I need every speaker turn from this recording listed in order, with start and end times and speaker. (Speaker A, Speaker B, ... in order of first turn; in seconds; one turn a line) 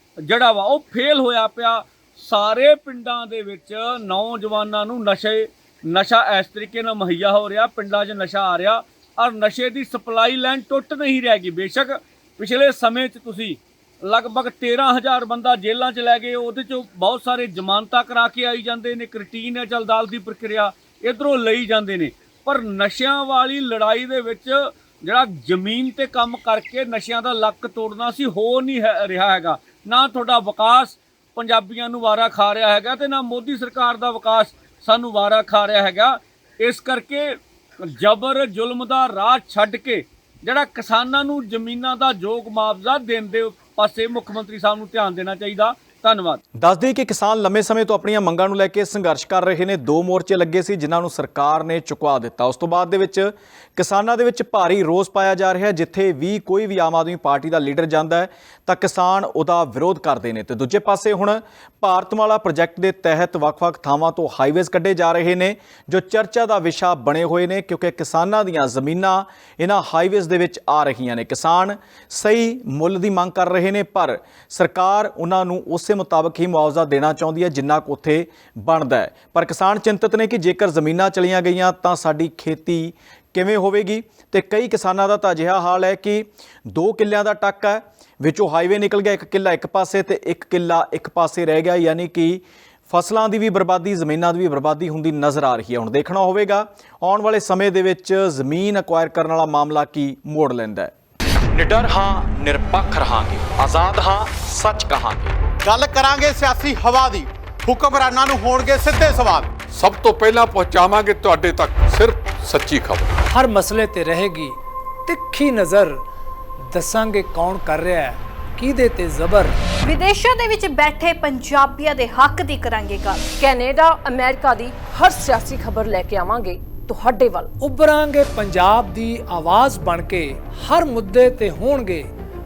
Speaker A: 0.2-37.3
Speaker A: 37.9-46.4
Speaker B: 46.6-100.9
Speaker B: 101.5-105.4
Speaker C: 105.6-109.5
Speaker D: 109.7-113.1
Speaker E: 113.3-116.0
Speaker E: 116.7-119.6
Speaker F: 119.8-123.2
Speaker G: 123.4-127.5
Speaker E: 127.6-132.1